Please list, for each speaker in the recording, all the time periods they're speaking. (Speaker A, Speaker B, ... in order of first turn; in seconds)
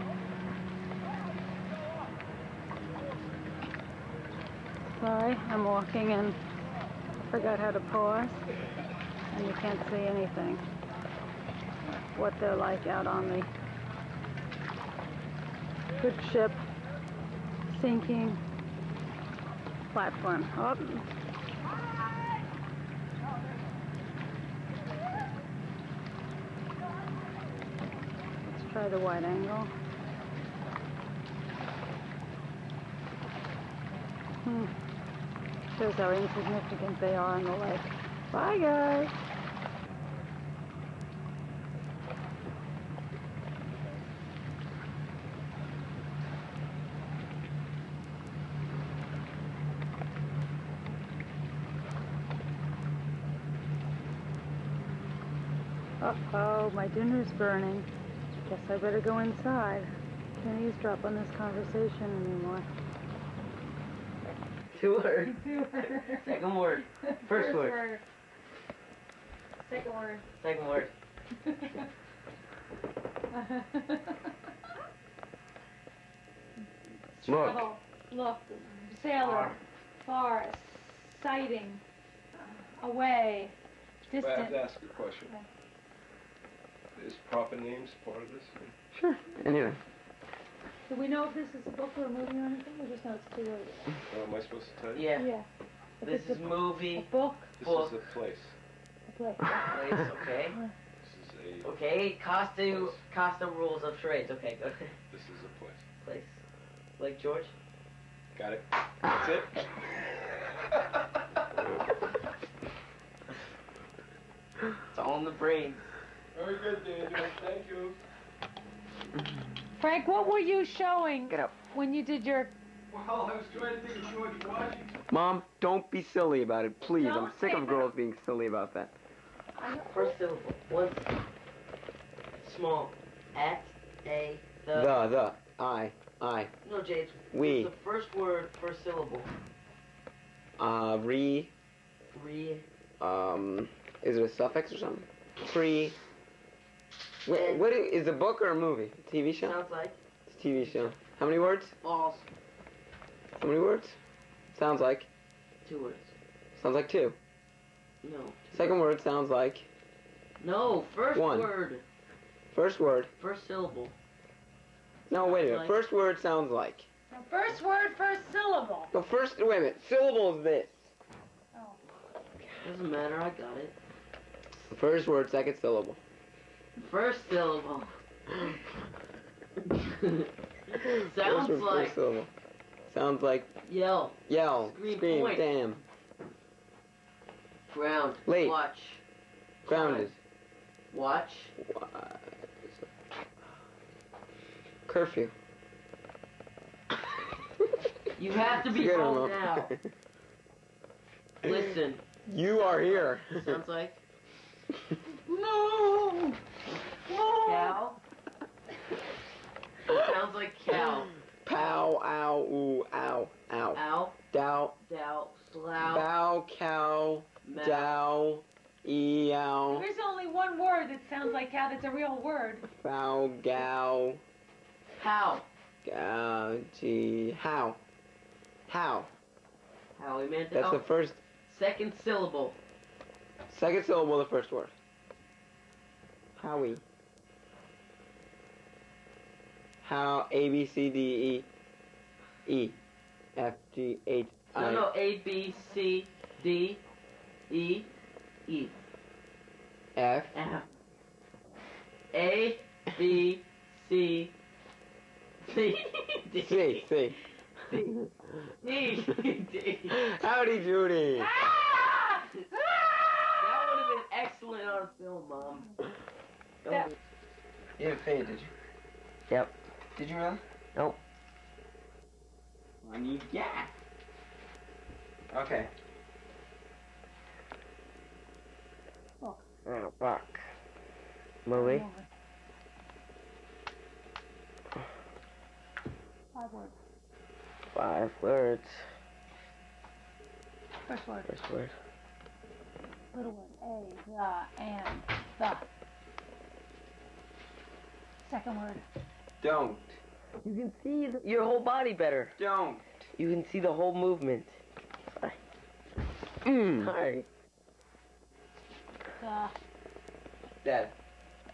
Speaker A: 4.9-6.4, 7.3-8.4, 9.3-10.6, 12.1-13.5, 16.0-16.6, 17.7-18.4, 19.9-21.1, 28.4-29.7, 34.4-34.7, 35.8-39.1, 56.0-57.9, 58.5-62.7, 65.2-66.4, 67.1-68.0, 69.6-70.2, 71.4-71.9, 73.3-74.3, 77.1-81.8, 82.5-84.6, 90.9-93.9, 95.1-95.5, 96.0-97.5, 99.1-99.5, 119.8-122.5, 127.0-127.9, 129.6-130.2, 167.1-168.9, 171.5-171.8, 219.7-222.7, 281.5-282.1, 286.3-286.8, 290.8-291.3, 293.1-295.6, 298.2-298.8, 309.2-309.6
Speaker B: 64.7-67.8, 70.4-70.9, 77.3-77.6, 79.2-79.6, 94.9-95.3, 96.0-97.9, 99.5-100.6, 101.6-104.9, 106.0-106.4, 107.0-107.5, 114.9-115.8, 129.8-131.1, 132.4-134.9, 136.6-139.3, 142.1-142.6, 147.3-147.7, 149.3-149.9, 150.6-150.9, 151.8-152.3, 155.6-156.1, 158.0-158.6, 160.4-161.8, 163.2-163.9, 165.1-165.8, 172.5-173.7, 176.8-178.0, 179.9-181.9, 183.6-185.8, 187.7-189.0, 189.7-190.1, 190.9-191.5, 198.2-199.7, 201.4-204.0, 207.1-208.0, 209.8-211.1, 213.7-214.2, 214.8-216.1, 217.4-218.1, 224.9-225.4, 230.0-230.8, 231.4-232.6, 244.5-246.8, 247.5-247.9, 248.4-248.7, 250.3-250.7, 252.1-254.3, 255.4-256.9, 258.6-259.9, 263.4-265.8, 266.6-266.9, 269.3-269.5, 279.6-280.4, 281.4-281.9, 287.7-288.9, 291.3-291.8, 300.4-302.3, 303.2-304.6, 306.8-307.3
Speaker C: 84.2-85.3, 87.0-88.7, 94.0-95.1, 97.6-98.5, 101.0-101.7, 102.7-103.0, 105.1-105.9, 108.3-110.7, 116.3-118.0, 122.9-125.0
Speaker D: 88.9-89.8, 121.3-121.6, 125.1-128.9, 134.7-136.5, 137.3-137.7, 140.6-141.5, 143.0-145.9, 147.2-149.6, 150.3-151.8, 153.4-154.0, 154.5-155.1, 156.6-157.2, 158.5-159.7, 161.1-161.5, 162.5-163.1, 165.1-166.9, 168.9-170.7, 174.7-176.0, 181.1-182.3, 182.9-183.5, 184.3-185.8, 188.2-188.6, 189.7-190.2, 191.6-192.8, 194.9-195.3, 198.5-199.9, 202.3-203.6, 205.3-206.3, 207.4-207.7, 211.4-214.8, 215.8-219.9, 222.7-224.2, 225.8-227.8, 228.7-229.1, 230.5-231.2, 233.5-234.7, 236.4-236.8, 239.8-241.4, 242.4-242.8, 243.3-244.9, 249.9-250.3, 256.4-257.2, 259.9-261.4, 267.8-268.5, 269.9-270.4, 272.8-273.7, 275.3-275.7, 299.4-300.0, 302.4-303.1, 306.4-306.9, 310.6-310.9